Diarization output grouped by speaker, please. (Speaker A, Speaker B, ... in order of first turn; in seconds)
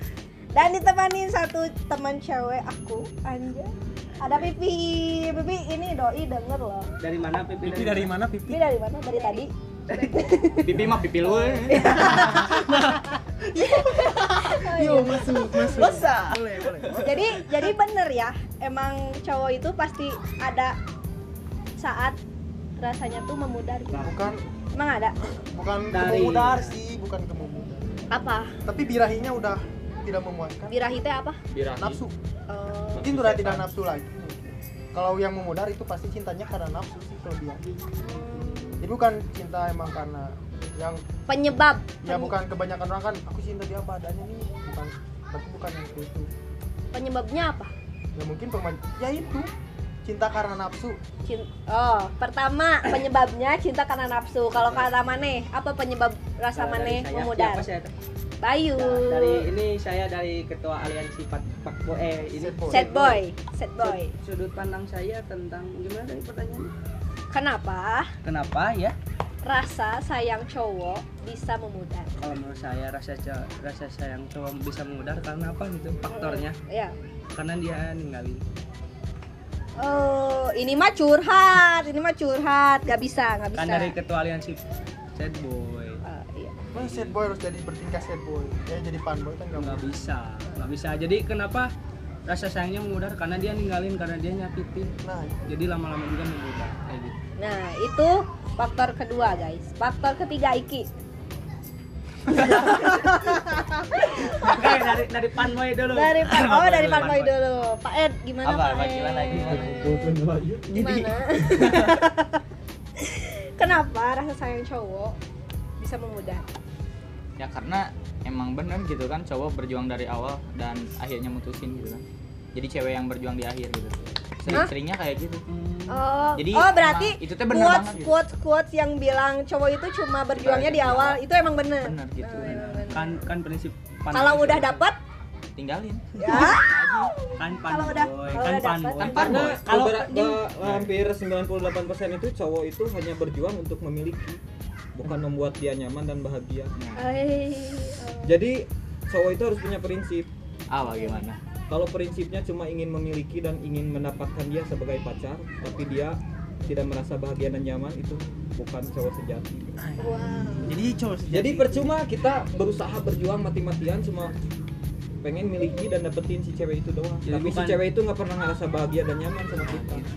Speaker A: 0.5-6.9, 8.5-10.9, 11.7-12.7, 13.7-16.1, 17.0-20.8, 21.8-22.2, 22.8-24.2, 24.7-25.2, 28.1-28.6, 30.7-31.4, 32.5-33.1, 38.0-38.9, 41.3-42.3, 46.9-47.7, 51.3-57.7, 58.4-59.5, 62.7-64.1, 67.3-68.1, 69.4-72.1, 76.1-77.0, 79.8-84.0, 86.0-86.6, 97.4-100.9, 102.4-104.6, 105.9-110.2, 110.7-112.4, 113.0-115.2, 115.8-116.5, 125.9-133.2, 134.1-135.0, 136.2-139.5, 146.9-148.4, 150.8-151.2, 160.0-160.8
Speaker B: 7.0-8.1, 9.9-10.2, 23.9-24.2, 25.9-26.8, 56.5-57.9, 58.8-63.2, 63.8-66.7, 68.2-69.0, 72.2-76.6, 77.3-78.4, 83.5-84.6, 85.2-86.0, 86.8-87.3, 89.5-91.7, 92.3-94.9, 95.5-97.2, 104.4-107.3, 124.4-124.7, 125.5-126.0, 132.5-134.8, 137.4-140.3, 167.2-167.8
Speaker C: 7.6-8.6, 11.4-17.7, 24.0-24.4, 25.3-27.9, 28.6-30.8, 31.8-32.1, 33.0-37.6, 38.8-41.0, 42.0-46.3, 48.2-49.5, 50.0-51.0, 62.4-62.9, 86.7-89.9, 95.0-95.4, 106.8-107.1, 110.7-112.0, 159.8-161.9, 169.7-170.1
Speaker D: 10.6-12.4, 15.8-16.4, 108.4-109.7, 117.4-122.0, 122.5-125.4, 126.4-128.2, 130.4-131.2, 131.8-133.0, 135.6-137.1, 139.0-139.7, 146.8-147.1, 150.7-151.4
Speaker E: 31.5-32.0, 32.9-33.7, 109.3-110.7, 139.1-144.4, 144.9-146.7, 148.2-150.3, 151.7-159.8, 161.3-164.3, 165.2-170.1